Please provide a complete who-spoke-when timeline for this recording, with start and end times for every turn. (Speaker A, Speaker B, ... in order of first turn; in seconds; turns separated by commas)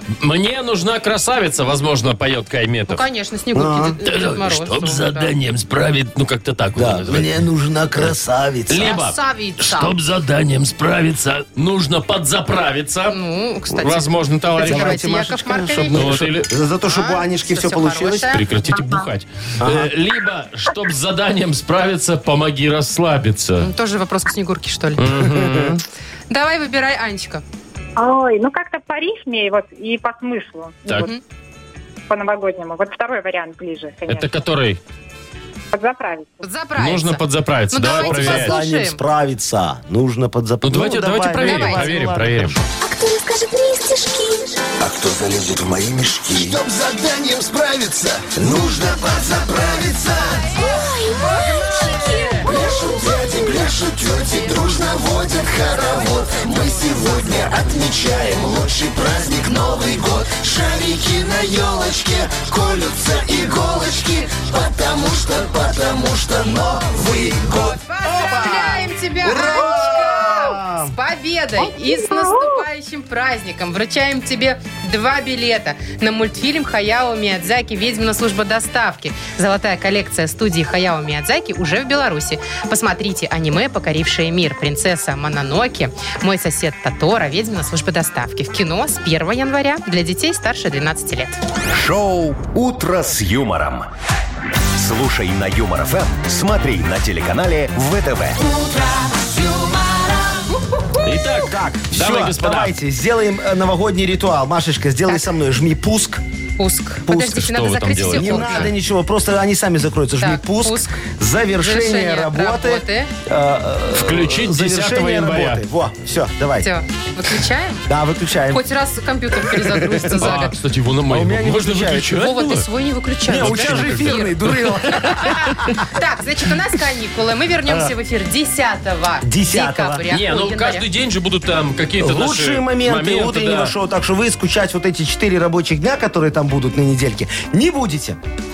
Speaker A: 0.2-3.0, Speaker B: 2.9-5.3, Speaker C: 3.5-4.0, Speaker A: 4.0-7.4, Speaker C: 6.7-9.0, Speaker A: 8.7-13.2, Speaker B: 8.8-9.9, Speaker B: 13.1-16.2, Speaker A: 13.7-15.0, Speaker C: 14.6-18.4, Speaker A: 15.9-16.5, Speaker B: 16.8-18.4, Speaker A: 18.3-23.7, Speaker C: 19.6-19.9, Speaker B: 23.6-25.0, Speaker A: 25.0-25.8, Speaker C: 25.3-25.7, Speaker B: 26.3-27.4, Speaker D: 27.9-31.1, Speaker B: 30.9-31.2, Speaker D: 32.1-34.4, Speaker A: 34.1-34.8, Speaker D: 35.7-36.4, Speaker B: 36.4-39.0, Speaker A: 36.8-38.5, Speaker C: 38.0-42.7, Speaker A: 40.6-42.5, Speaker B: 41.4-41.9, Speaker E: 42.8-44.6, Speaker F: 44.8-50.6, Speaker E: 50.5-53.3, Speaker F: 51.9-67.8, Speaker B: 67.6-91.4, Speaker C: 68.0-70.9, Speaker G: 91.7-93.9, Speaker G: 94.7-98.4, Speaker E: 98.4-100.5, Speaker A: 101.0-102.8, Speaker C: 101.4-106.2, Speaker B: 106.6-108.7, Speaker C: 107.1-107.4, Speaker A: 107.1-108.7, Speaker C: 108.1-116.7, Speaker B: 110.2-111.0, Speaker B: 111.6-113.1, Speaker A: 113.9-115.6, Speaker B: 116.6-117.8, Speaker C: 117.9-118.6, Speaker B: 118.5-120.5, Speaker C: 119.4-120.5, Speaker A: 120.2-122.6, Speaker C: 121.1-122.3, Speaker B: 122.1-124.4, Speaker A: 123.3-124.7, Speaker C: 123.3-125.8, Speaker B: 124.9-130.8, Speaker C: 129.2-130.0, Speaker A: 130.1-133.7, Speaker C: 132.0-138.2